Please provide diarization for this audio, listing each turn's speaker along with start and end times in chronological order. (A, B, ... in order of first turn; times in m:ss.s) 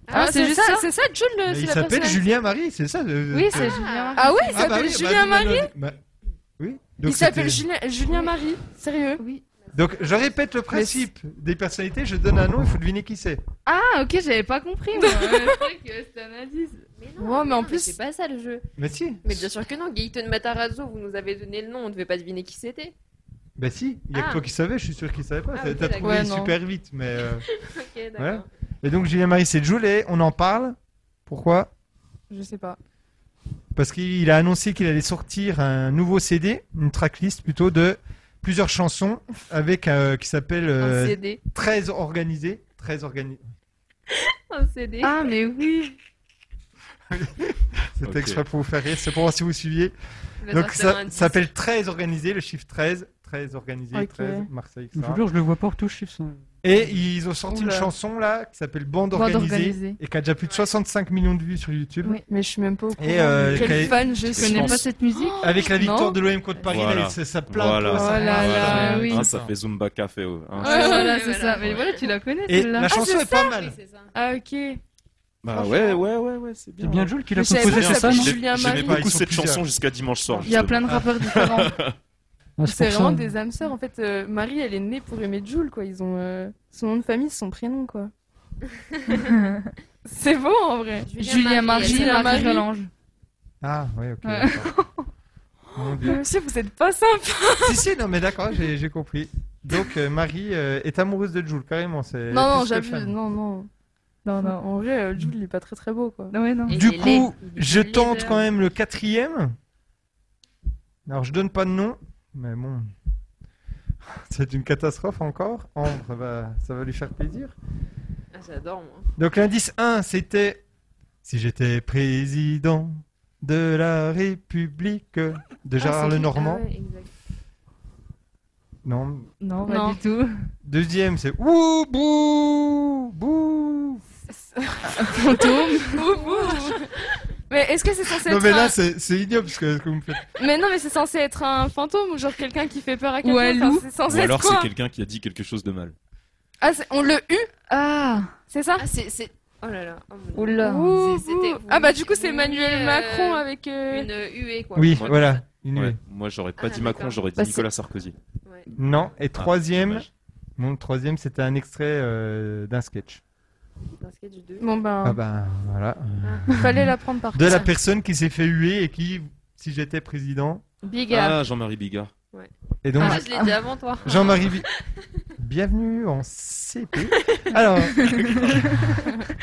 0:00.1-0:00.9 A
0:00.1-0:02.2 B
0:01.5-0:03.8 C
0:03.3-0:04.7 A
0:03.5-0:04.4 D
0:04.2-0:05.7 B
0:04.5-0:06.0 C
0:06.6-0:07.6 C
0:07.0-0:09.2 B
0:09.2-0:09.4 A
0:09.6-0:10.4 D
0:09.7-0:13.4 C
0:10.7-0:11.0 B
0:13.7-0:16.9 A
0:15.0-0:15.7 B
0:17.0-0:18.7 D
0:17.2-0:17.9 B
0:18.8-0:19.4 C
0:19.2-0:23.0 D
0:23.6-0:27.5 C
0:24.1-0:24.4 D
0:25.5-0:26.3 D
0:26.0-0:26.6 B
0:27.6-0:28.5 D
0:28.2-0:31.7 C
0:32.3-0:32.8 B
0:33.8-0:43.5 C
0:40.8-0:41.4 D
0:44.5-0:45.3 D
0:45.0-0:46.0 A
0:47.1-0:49.9 C
0:48.0-0:48.4 E
0:50.4-0:51.4 D
0:50.5-0:55.2 C
0:53.9-0:54.5 B
0:54.9-0:57.0 F
0:56.6-1:02.2 C
0:57.5-0:57.9 B
0:59.1-1:00.0 A
1:02.3-1:06.2 B
1:03.0-1:04.1 C
1:03.5-1:05.6 A
1:04.2-1:04.9 E
1:05.4-1:09.5 C
1:06.7-1:11.0 E
1:08.0-1:09.1 B
1:08.0-1:09.3 A
1:10.6-1:13.0 A
1:10.6-1:11.2 B
1:10.6-1:12.2 D
1:12.5-1:13.8 C
1:13.0-1:13.4 B
1:13.3-1:14.1 D
1:14.1-1:14.8 B
1:15.4-1:22.0 E
1:16.8-1:18.4 F
1:17.4-1:19.1 B
1:18.6-1:19.6 C
1:20.4-1:21.8 A
1:22.6-1:23.3 F
1:22.7-1:28.1 B
1:29.3-1:29.7 A
1:30.1-1:31.1 B
1:31.1-1:32.6 D
1:31.2-1:32.9 A
1:31.8-1:32.6 B
1:33.6-1:34.7 C
1:34.2-1:35.1 A
1:35.8-1:36.2 C
1:36.0-1:37.8 B
1:37.6-1:43.1 C
1:42.3-1:43.7 B
1:44.2-1:44.6 A
1:44.4-1:46.3 B
1:46.3-1:46.7 A
1:46.7-1:48.5 D
1:46.7-1:49.6 C
1:51.1-1:52.9 C
1:54.2-1:57.6 C
1:58.3-1:59.1 D
1:59.2-2:00.6 C
2:01.2-2:06.6 C
2:05.8-2:07.1 D
2:08.8-2:09.3 C
2:09.4-2:10.3 A
2:09.7-2:10.0 B
2:10.6-2:14.0 C
2:14.3-2:16.8 B
2:15.0-2:15.9 A
2:17.5-2:18.8 B
2:18.2-2:20.2 C
2:20.4-2:24.7 B
2:23.2-2:23.9 A
2:24.1-2:26.0 E
2:26.6-2:27.5 B
2:27.7-2:28.4 A
2:28.5-2:28.8 B
2:28.8-2:35.4 D
2:30.4-2:31.0 A
2:30.6-2:34.1 B
2:34.8-2:36.0 C
2:34.9-2:35.2 E
2:35.8-2:38.2 E
2:36.6-2:37.6 D
2:38.8-2:43.2 C
2:39.4-2:40.1 E
2:44.0-2:44.7 D
2:44.6-2:45.2 B
2:45.0-2:50.6 C
2:46.2-2:46.6 D
2:46.6-2:47.7 B
2:50.8-2:51.4 D
2:51.1-2:52.1 E
2:52.3-2:54.7 D
2:52.8-2:53.2 C
2:53.0-2:53.5 A
2:54.0-2:54.7 C
2:55.4-2:58.7 C